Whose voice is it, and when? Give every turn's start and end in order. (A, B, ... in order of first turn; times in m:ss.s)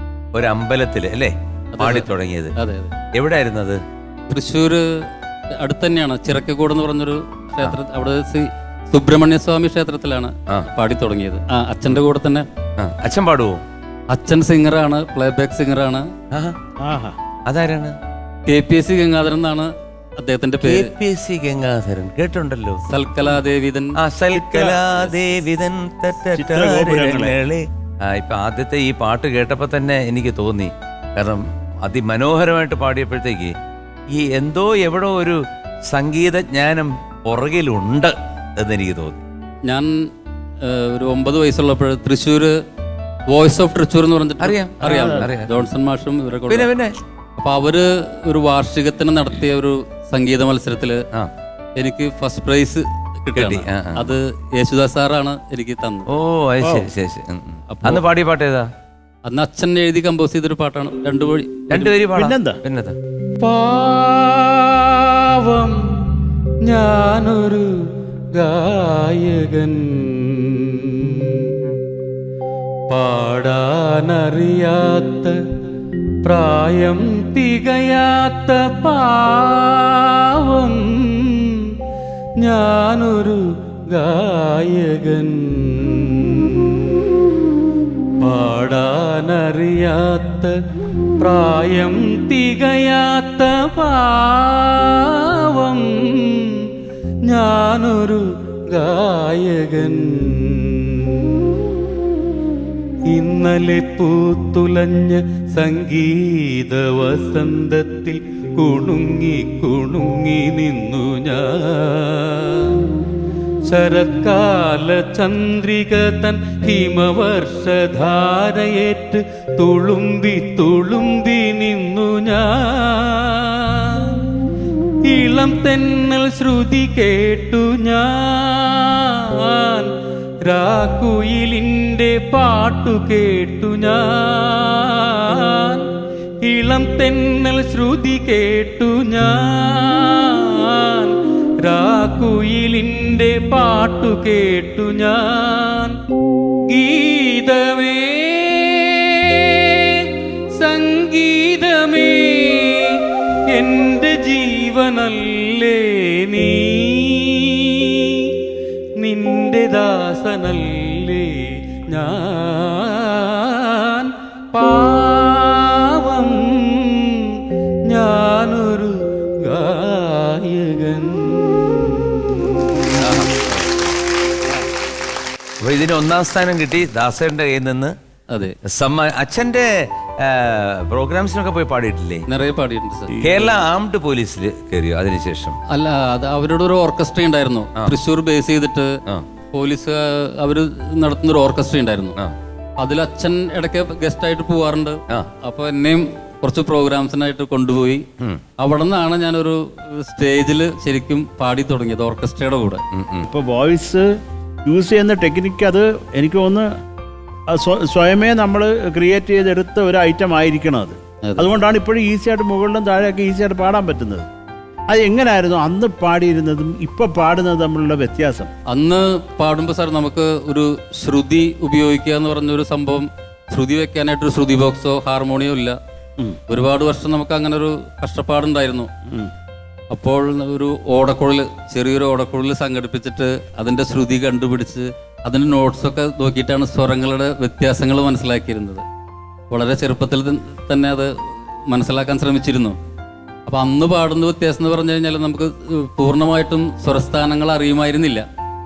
0:00.3-0:02.5 A
0:01.8-0:02.1 B
0:02.6-0:02.9 B
0:03.1-0:03.8 A
0:04.3-0:04.8 B
0:05.6-0:12.5 B
0:12.8-0:13.6 A
0:14.1-0:16.1 B
0:16.8-0:17.2 C
0:17.5-0:18.0 A
0:18.5-0:20.9 B
0:20.6-0:22.8 A
0:22.9-0:23.9 B
0:24.0-0:33.5 A
0:24.3-0:24.9 C
0:26.3-0:27.4 C
0:34.1-0:39.2 A
0:39.6-0:40.1 B
0:40.6-0:42.6 B
0:43.3-0:46.7 B
0:44.4-0:45.5 A
0:44.8-0:45.3 C
0:46.5-0:46.9 A
0:47.4-0:51.0 B
0:51.8-0:56.1 B
0:53.3-0:54.2 A
0:56.1-0:58.7 A
0:56.6-0:56.9 C
0:57.7-0:58.0 B
0:59.3-1:01.9 B
1:01.7-1:03.0 A
1:02.1-1:02.6 C
1:03.4-1:06.0 B
1:06.6-1:07.7 B
1:08.3-1:11.8 B
1:12.9-1:15.4 B
1:16.2-1:21.7 B
1:22.4-1:27.3 B
1:28.2-1:30.5 B
1:31.2-1:36.7 B
1:37.2-1:41.9 B
1:43.1-1:52.9 B
1:53.6-2:04.2 B
2:05.1-2:09.9 B
2:10.4-2:15.9 B
2:16.4-2:26.0 B
2:26.7-2:38.3 B
2:39.0-2:53.9 B
2:55.6-2:57.9 A
2:58.7-2:59.7 A
3:00.2-3:02.2 A
3:02.3-3:03.5 B
3:03.2-3:05.6 A
3:05.7-3:08.9 B
3:09.5-3:12.2 B
3:12.8-3:18.0 B
3:18.6-3:22.8 B
3:22.9-3:23.3 A
3:23.3-3:24.1 C
3:24.6-3:26.7 C
3:27.5-3:34.2 C
3:31.2-3:31.5 B
3:34.9-3:38.5 C
3:38.7-3:45.8 B
3:46.5-3:48.9 B
3:49.9-3:58.8 B
3:59.5-4:01.1 B
4:01.7-4:02.8 B
4:03.4-4:08.2 B